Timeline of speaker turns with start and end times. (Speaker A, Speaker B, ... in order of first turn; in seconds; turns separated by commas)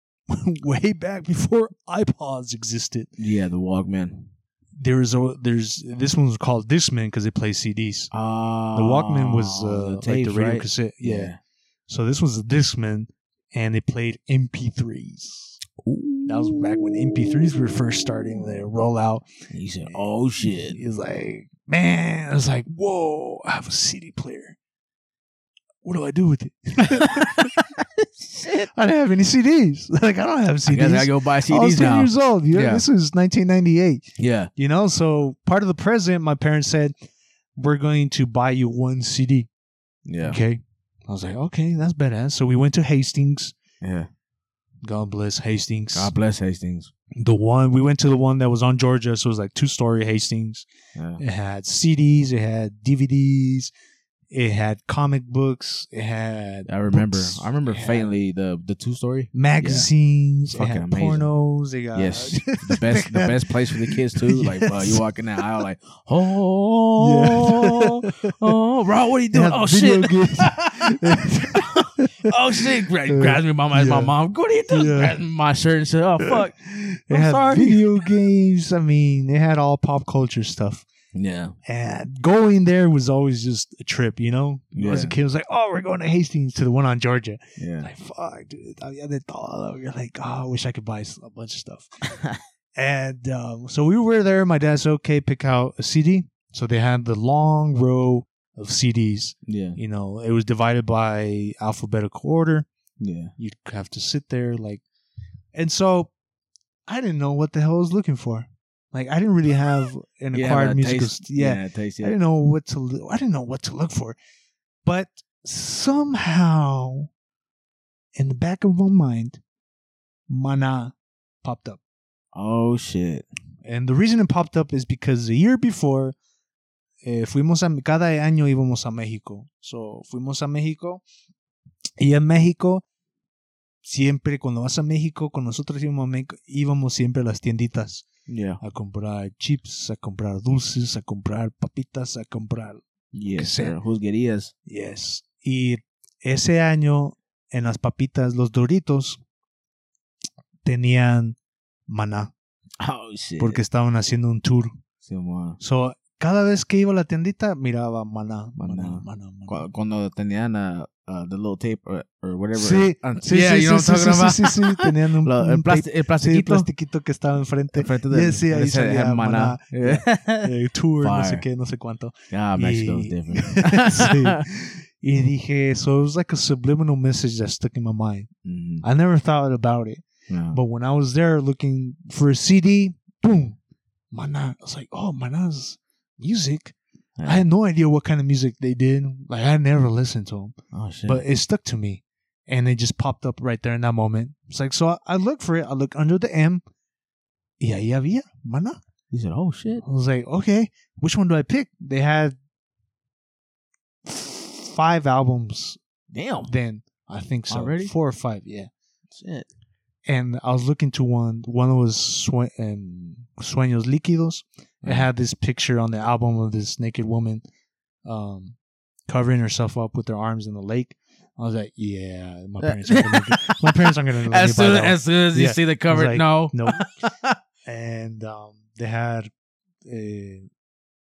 Speaker A: 0.3-3.1, Speaker B: 3.2-4.3, Speaker A: 4.8-8.1, Speaker B: 8.1-11.4, Speaker A: 8.7-11.3, Speaker A: 11.9-15.6, Speaker B: 15.8-17.6, Speaker A: 16.3-19.2, Speaker B: 19.5-20.8, Speaker A: 19.9-24.6, Speaker A: 25.8-27.5, Speaker B: 26.9-28.7, Speaker A: 28.7-34.0, Speaker B: 30.7-32.8, Speaker B: 34.2-34.5, Speaker A: 34.5-36.9, Speaker A: 37.5-39.5, Speaker B: 40.0-40.4, Speaker A: 40.2-43.5, Speaker B: 43.8-44.1, Speaker A: 44.8-46.1, Speaker B: 45.9-46.9, Speaker A: 47.2-50.7, Speaker B: 50.9-51.2, Speaker A: 51.2-53.7, Speaker A: 54.3-58.1, Speaker B: 56.7-59.9, Speaker A: 59.3-65.1, Speaker B: 60.5-61.3, Speaker B: 61.9-76.6, Speaker A: 67.0-68.3, Speaker A: 69.3-72.3, Speaker A: 73.0-74.1, Speaker A: 74.7-75.2, Speaker A: 76.2-80.8, Speaker B: 77.1-78.0, Speaker B: 81.1-81.5, Speaker A: 81.7-92.0, Speaker B: 84.7-85.1, Speaker B: 87.6-87.9, Speaker B: 92.1-92.4, Speaker A: 92.8-102.7, Speaker B: 99.5-99.8, Speaker B: 103.0-103.3, Speaker A: 103.4-104.8, Speaker A: 105.5-106.1, Speaker A: 106.9-114.2, Speaker B: 110.3-112.2, Speaker A: 114.8-117.1, Speaker A: 118.2-119.4, Speaker A: 120.3-121.8, Speaker B: 122.3-123.2, Speaker A: 123.6-126.1, Speaker A: 127.0-131.0, Speaker A: 132.0-132.8, Speaker A: 133.8-138.1, Speaker B: 138.3-138.6, Speaker A: 138.6-142.8, Speaker B: 143.1-144.5, Speaker A: 143.3-143.8, Speaker A: 144.7-149.2, Speaker A: 150.6-151.4, Speaker A: 151.9-152.3, Speaker B: 152.8-153.6, Speaker A: 153.4-154.7, Speaker B: 155.0-155.6, Speaker A: 155.6-159.7, Speaker B: 158.6-166.7, Speaker A: 162.5-178.3, Speaker B: 167.7-171.4, Speaker B: 172.3-174.4, Speaker B: 178.4-178.8, Speaker A: 178.8-183.6, Speaker B: 180.3-180.6, Speaker A: 184.1-190.5, Speaker B: 187.2-187.4, Speaker B: 190.7-191.2, Speaker A: 191.1-196.6, Speaker A: 197.6-198.8, Speaker B: 199.1-199.8, Speaker A: 199.8-202.4, Speaker A: 204.0-205.8, Speaker B: 206.1-206.5, Speaker A: 206.4-208.7, Speaker B: 207.5-207.9, Speaker B: 209.1-209.5, Speaker A: 210.1-217.4, Speaker B: 214.8-215.1, Speaker A: 218.0-218.6, Speaker A: 219.1-226.8, Speaker B: 222.6-227.4, Speaker A: 227.6-229.3, Speaker A: 229.8-230.5